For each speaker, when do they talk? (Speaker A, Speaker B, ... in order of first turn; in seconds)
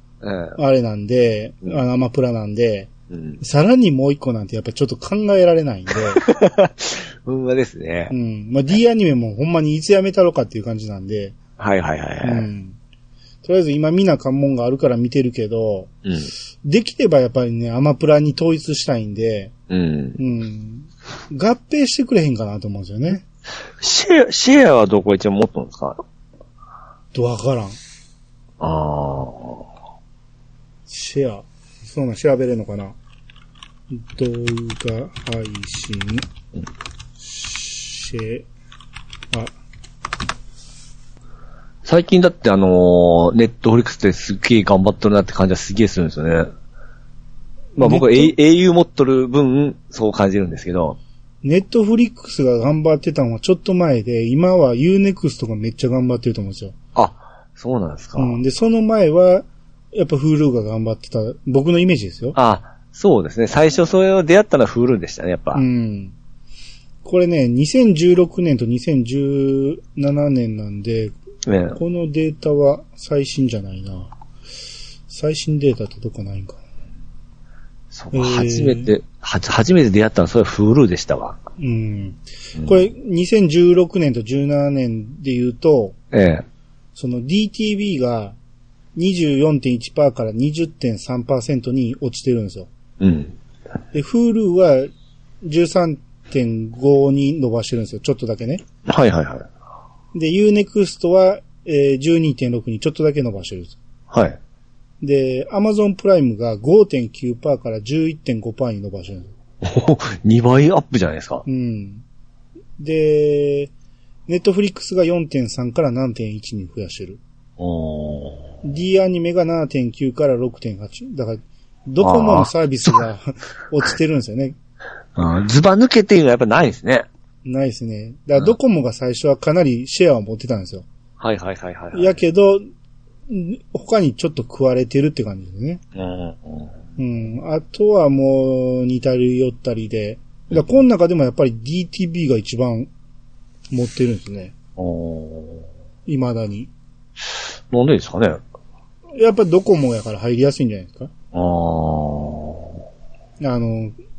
Speaker A: 0.2-0.6, 3.1-3.4, 6.2-8.1, 11.6-12.5, 16.1-16.3, 19.7-20.2, 23.8-26.0, 28.6-29.6, 41.9-46.5, 47.8-51.0, 57.0-58.4, 62.4-65.6, 71.5-71.8, 77.9-81.4, 86.1-86.4, 93.0-93.3, 98.9-99.5, 104.1-104.4, 109.6-111.4, 117.6-118.5, 122.0-123.0, 125.2-127.1, 131.2-132.2, 135.9-136.7, 144.8-145.7, 147.7-148.4, 151.3-152.8
Speaker B: 0.6-6.2, 8.1-11.4, 12.2-12.8, 13.4-15.9, 16.6-19.5, 20.2-23.2, 27.1-27.8, 30.9-33.0, 33.9-36.3, 37.2-38.5, 47.8-48.3, 51.4-56.8, 58.2-62.4, 65.5-66.2, 67.0-71.2, 71.8-74.1, 75.1-76.6, 78.1-78.9, 81.6-86.0, 87.0-88.4, 89.0-92.7, 93.9-94.9, 95.4-98.7, 100.1-103.8, 105.0-109.3, 111.5-112.0, 112.8-113.7, 114.3-117.2, 118.6-124.6, 127.5-130.9, 131.9-132.6, 133.3-135.8, 137.0-142.9, 143.7-144.5, 146.1-146.7, 149.2-151.1, 153.4-153.9